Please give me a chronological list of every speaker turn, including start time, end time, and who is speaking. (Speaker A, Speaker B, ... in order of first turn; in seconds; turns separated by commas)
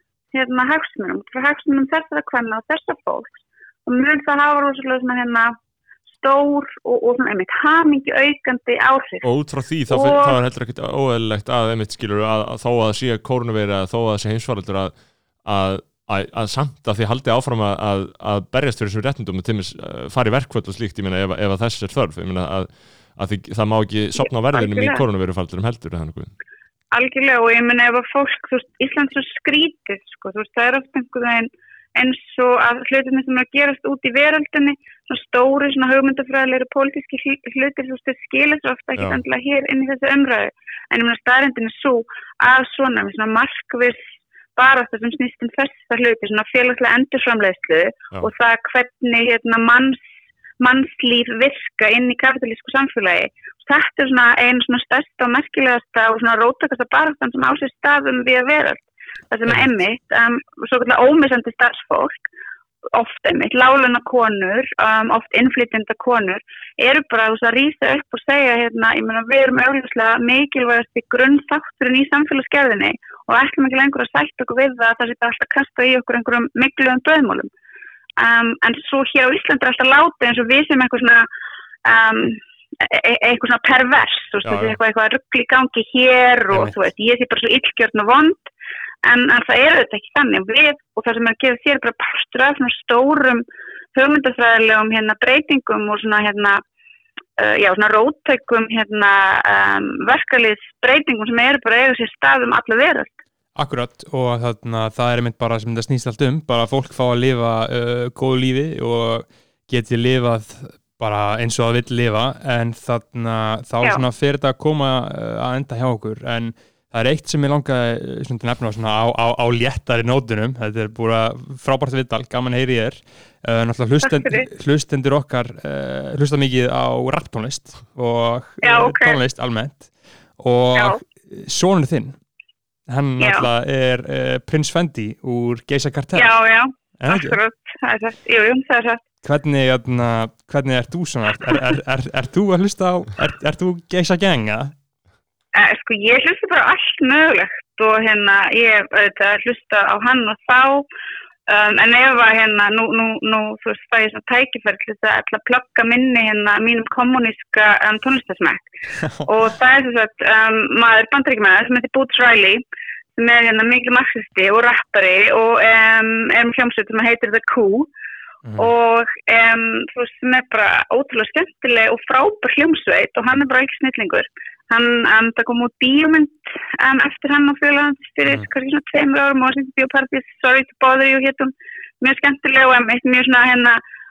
Speaker A: 0.3-3.3, Speaker A: 3.9-5.6, Speaker A: 6.1-9.2, Speaker B: 9.2-14.9, Speaker A: 9.9-10.4, Speaker B: 15.4-26.3, Speaker A: 24.2-25.0, Speaker A: 26.9-44.0, Speaker A: 44.5-50.0, Speaker A: 50.6-62.2, Speaker A: 62.9-77.5, Speaker A: 78.2-81.3, Speaker A: 81.8-88.5, Speaker B: 84.4-84.8, Speaker A: 89.0-93.4, Speaker A: 93.9-96.6, Speaker A: 97.4-103.1, Speaker C: 103.5-132.2, Speaker A: 124.0-124.5, Speaker A: 128.6-129.2, Speaker A: 130.7-131.0, Speaker C: 132.9-136.3, Speaker A: 133.2-133.5, Speaker A: 136.2-139.0, Speaker C: 137.0-137.4, Speaker C: 139.2-144.7, Speaker A: 145.5-150.8, Speaker A: 151.5-158.7, Speaker C: 159.0-159.3, Speaker A: 159.2-162.6, Speaker A: 163.2-167.9, Speaker C: 168.4-168.7, Speaker A: 168.6-183.8